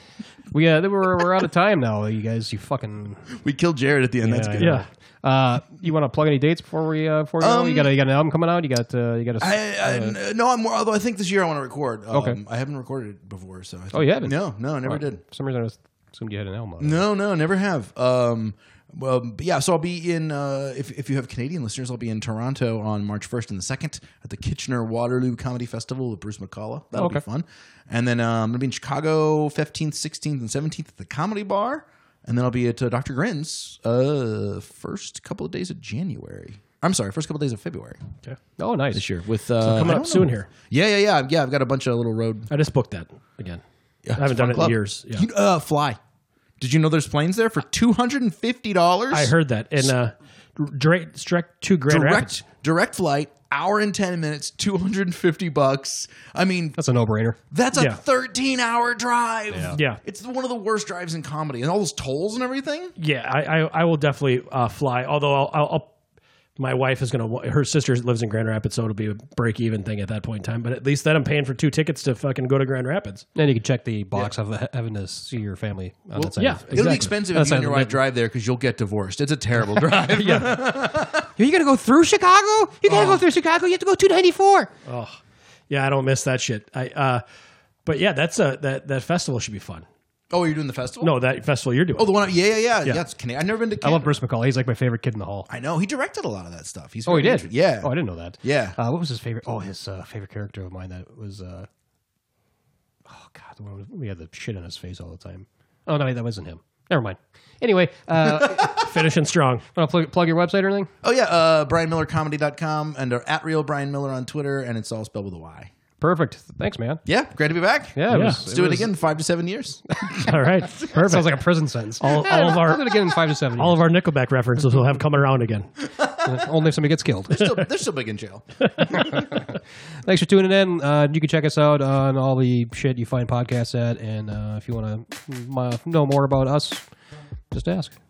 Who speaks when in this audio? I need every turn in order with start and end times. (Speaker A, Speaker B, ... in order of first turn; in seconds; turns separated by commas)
Speaker A: 0.5-3.3, Speaker B: 3.3-4.8, Speaker A: 4.2-10.2, Speaker C: 4.6-4.8, Speaker B: 7.4-7.9, Speaker B: 9.4-15.2, Speaker A: 12.1-12.4, Speaker A: 13.9-17.0, Speaker B: 16.8-38.0, Speaker A: 27.0-27.2, Speaker A: 38.6-39.0, Speaker B: 38.9-42.5, Speaker C: 39.6-40.5, Speaker A: 39.6-40.1, Speaker C: 42.5-43.6, Speaker B: 44.0-46.0, Speaker C: 44.1-45.3, Speaker B: 46.6-49.9, Speaker C: 49.1-52.4, Speaker B: 51.9-56.8, Speaker A: 56.8-57.4, Speaker B: 57.5-62.9, Speaker A: 59.5-59.8, Speaker C: 59.7-60.0, Speaker C: 63.0-65.9, Speaker C: 66.6-73.2, Speaker A: 73.3-78.0, Speaker B: 76.1-81.3, Speaker C: 76.4-77.1, Speaker C: 80.1-80.6, Speaker A: 81.4-84.7, Speaker B: 82.9-83.2, Speaker C: 84.9-85.2, Speaker C: 85.7-87.2, Speaker C: 87.8-89.9, Speaker B: 90.3-91.1, Speaker C: 91.0-92.2, Speaker B: 92.0-94.2, Speaker A: 93.8-95.5, Speaker B: 95.5-98.8, Speaker A: 97.0-101.7, Speaker A: 103.1-108.8, Speaker B: 108.2-108.9, Speaker C: 108.6-109.6, Speaker A: 109.7-110.9, Speaker B: 111.0-115.7, Speaker A: 116.0-117.0, Speaker B: 117.0-121.0, Speaker A: 118.0-118.9, Speaker C: 118.1-118.4, Speaker C: 120.1-121.4, Speaker A: 121.0-123.8, Speaker C: 122.0-125.7, Speaker B: 126.0-126.3, Speaker A: 126.2-127.4, Speaker B: 127.3-129.0, Speaker A: 128.9-136.8, Speaker A: 137.5-137.9